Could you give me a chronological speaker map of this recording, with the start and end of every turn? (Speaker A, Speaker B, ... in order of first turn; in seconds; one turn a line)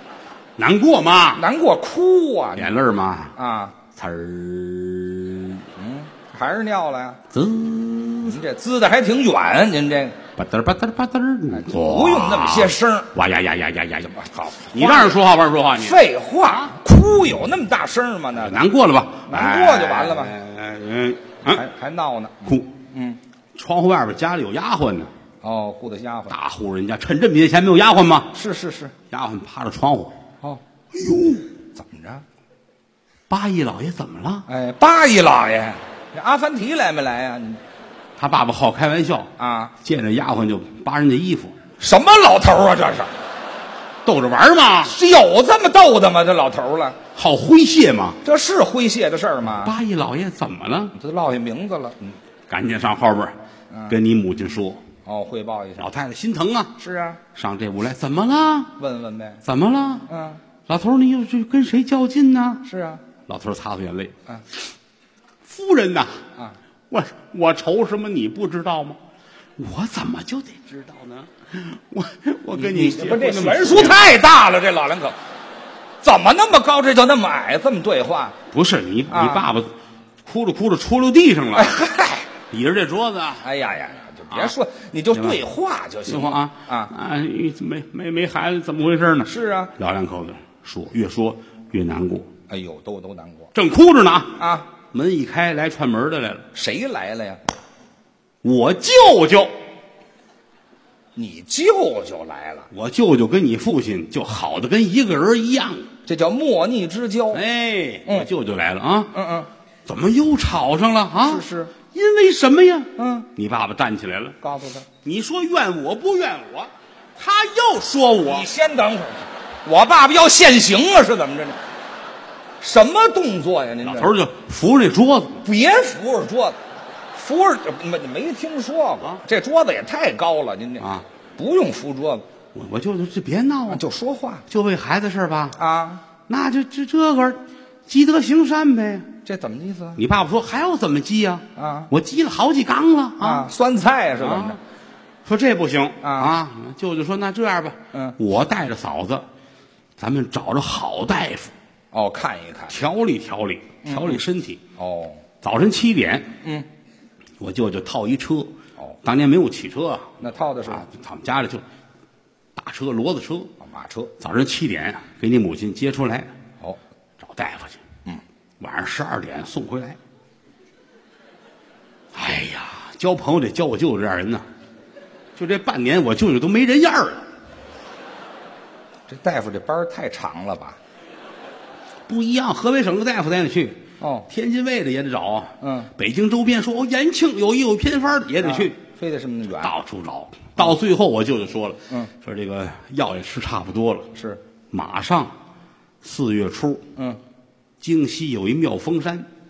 Speaker A: 0.6-1.4
Speaker B: 1.3-2.7
Speaker A: 2.5-3.4
Speaker B: 3.4-3.8
Speaker A: 3.9-5.7
Speaker B: 5.8-7.2
Speaker A: 7.3-8.4
Speaker B: 8.2-10.2
Speaker A: 10.3-14.2
Speaker B: 11.5-13.1
Speaker B: 14.1-15.2
Speaker A: 14.7-16.0
Speaker B: 15.8-18.6
Speaker A: 18.4-21.6
Speaker B: 19.3-20.3
Speaker B: 21.4-23.2
Speaker A: 23.5-25.1
Speaker B: 25.4-26.3
Speaker A: 26.3-28.3
Speaker B: 28.3-28.9
Speaker A: 29.1-30.1
Speaker A: 30.9-31.4
Speaker B: 31.7-32.2
Speaker A: 33.3-34.5
Speaker B: 34.5-37.6
Speaker A: 38.2-39.3
Speaker B: 39.4-39.8
Speaker A: 39.8-41.5
Speaker B: 41.8-43.1
Speaker A: 44.0-44.9
Speaker B: 44.8-47.0
Speaker A: 47.1-48.2
Speaker B: 48.2-49.7
Speaker A: 49.5-50.9
Speaker B: 51.0-52.1
Speaker A: 52.5-53.3
Speaker A: 53.9-54.8
Speaker B: 55.0-55.9
Speaker A: 55.8-56.7
Speaker B: 56.8-57.2
Speaker A: 57.3-58.7
Speaker B: 58.8-59.4
Speaker A: 59.4-60.1
Speaker B: 60.1-60.4
Speaker A: 60.7-62.6
Speaker B: 62.6-63.0
Speaker A: 63.3-64.1
Speaker A: 65.5-66.2
Speaker A: 66.9-69.0
Speaker A: 69.6-74.0
Speaker B: 72.5-75.2
Speaker B: 76.0-78.4
Speaker A: 78.5-79.7
Speaker B: 79.1-79.4
Speaker A: 80.2-81.8
Speaker B: 81.5-82.3
Speaker A: 82.5-83.5
Speaker B: 83.4-86.9
Speaker A: 85.1-85.4
Speaker A: 86.0-92.3
Speaker B: 89.2-89.7
Speaker B: 92.5-93.5
Speaker A: 93.5-96.5
Speaker B: 94.4-94.7
Speaker B: 96.5-97.4
Speaker A: 98.4-99.5
Speaker B: 101.2-102.7
Speaker A: 102.7-105.9
Speaker B: 106.0-107.4
Speaker A: 107.3-109.1
Speaker B: 109.1-109.5
Speaker A: 109.9-114.4
Speaker B: 111.2-111.7
Speaker B: 113.0-113.3
Speaker B: 114.4-114.9
Speaker A: 115.0-118.5
Speaker B: 118.2-121.6
Speaker B: 122.6-124.1
Speaker A: 123.8-125.4
Speaker B: 125.4-126.6
Speaker B: 127.1-130.8
Speaker A: 130.8-131.0
Speaker B: 131.4-132.2
Speaker A: 132.5-133.8
Speaker B: 133.7-134.4
Speaker A: 134.5-135.6
Speaker B: 135.6-136.0
Speaker A: 136.3-139.1
Speaker B: 139.2-140.0
Speaker A: 139.9-143.5
Speaker B: 141.6-141.9
Speaker B: 143.2-144.6
Speaker A: 144.2-144.6
Speaker A: 145.2-149.2
Speaker B: 146.0-146.3
Speaker A: 150.0-151.5
Speaker B: 151.9-152.8
Speaker A: 152.7-154.6
Speaker B: 153.8-154.2
Speaker B: 154.8-155.2
Speaker A: 155.4-156.3
Speaker A: 157.4-158.5
Speaker A: 159.0-161.6
Speaker B: 160.2-160.8
Speaker A: 162.6-163.5
Speaker B: 163.6-164.1
Speaker A: 164.2-166.3
Speaker A: 167.2-167.8
Speaker A: 168.6-170.0
Speaker A: 172.1-174.4
Speaker A: 175.3-177.2
Speaker B: 179.1-180.8
Speaker A: 182.1-188.8
Speaker B: 184.0-184.3
Speaker B: 185.6-185.9
Speaker B: 188.4-189.7
Speaker A: 189.6-194.1
Speaker B: 194.1-194.4
Speaker A: 194.7-195.3
Speaker A: 196.0-196.8
Speaker A: 197.8-199.3